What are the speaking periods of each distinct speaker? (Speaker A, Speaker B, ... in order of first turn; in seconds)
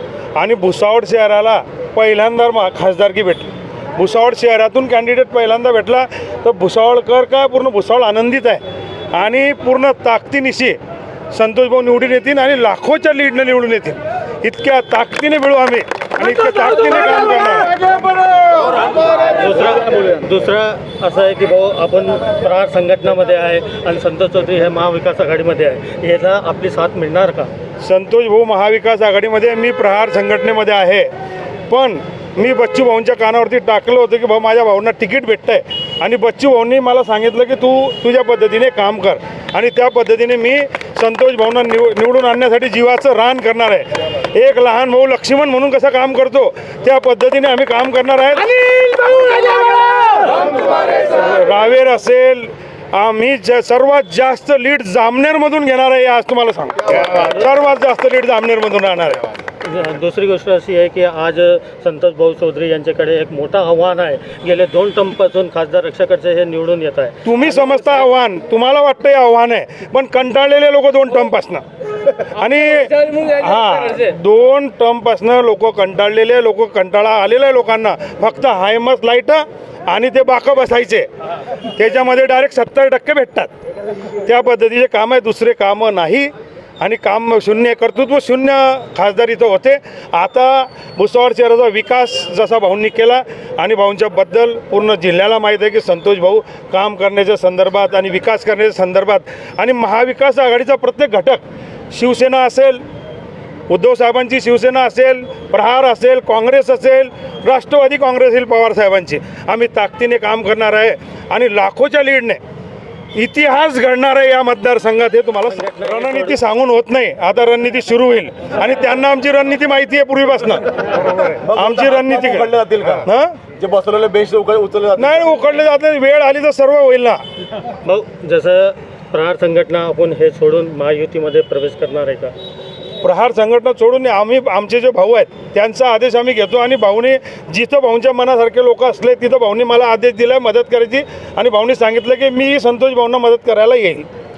Speaker A: 0.4-8.6, 9.1-10.8, 11.3-17.9, 27.8-31.1, 31.7-59.3, 67.2-81.1, 81.6-83.5, 84.2-102.8, 103.7-112.4, 113.2-123.4, 125.0-127.2, 133.0-144.1
Speaker B: 18.9-27.5, 59.6-68.0, 115.5-116.4, 127.8-132.3
Speaker C: 121.3-125.3